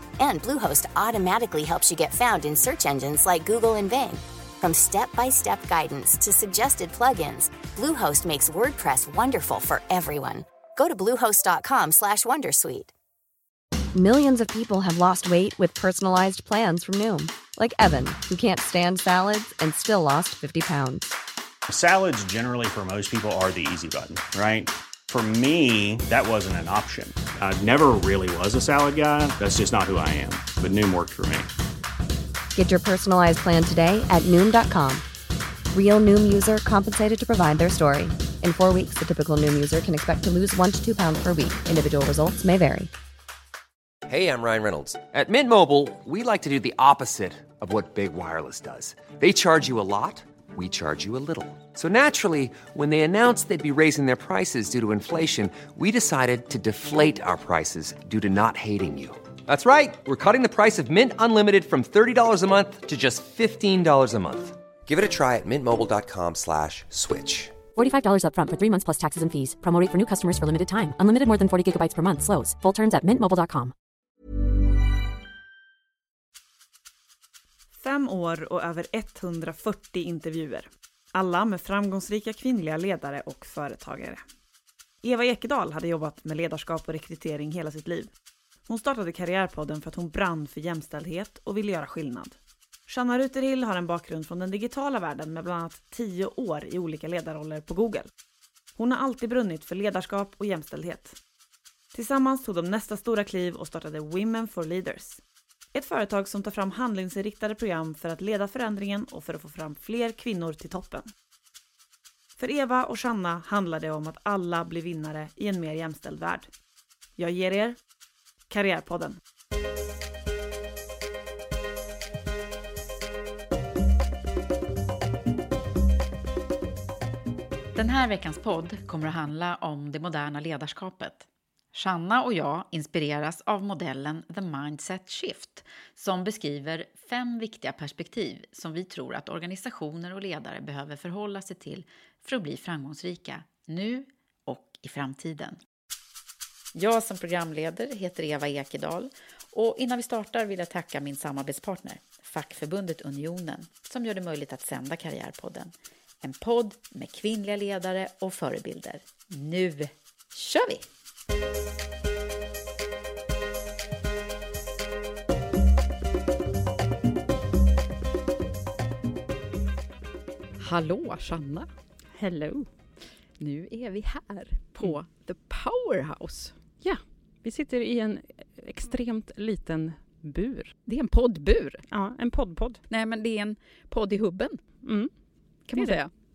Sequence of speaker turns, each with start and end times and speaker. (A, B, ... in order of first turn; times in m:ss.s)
0:00.2-0:12.9 A
0:14.0-0:21.1 B
0:21.7-0:31.5 C
0:32.6-0:35.0 B
0:35.7-0:42.9 B
0:44.1-1:07.6 D
1:07.8-1:13.7 E
1:17.8-1:24.2 F
1:25.0-1:28.1 F
1:28.7-1:38.1 F
1:38.8-1:41.2 F
1:41.9-1:45.2 F
1:45.7-1:51.1 F
1:52.4-1:56.5 F
1:57.2-1:57.8 F
1:58.5-1:59.2 F
2:07.8-2:25.6 G
2:26.7-2:40.8 G
2:50.6-2:51.7 G
2:52.1-2:52.7 H
2:53.4-2:56.5 G
2:56.8-3:00.7 H
3:00.8-3:01.8 G
3:01.9-3:02.8 H
3:02.9-3:04.6 G
3:04.8-3:05.1 H
3:05.7-3:06.1 G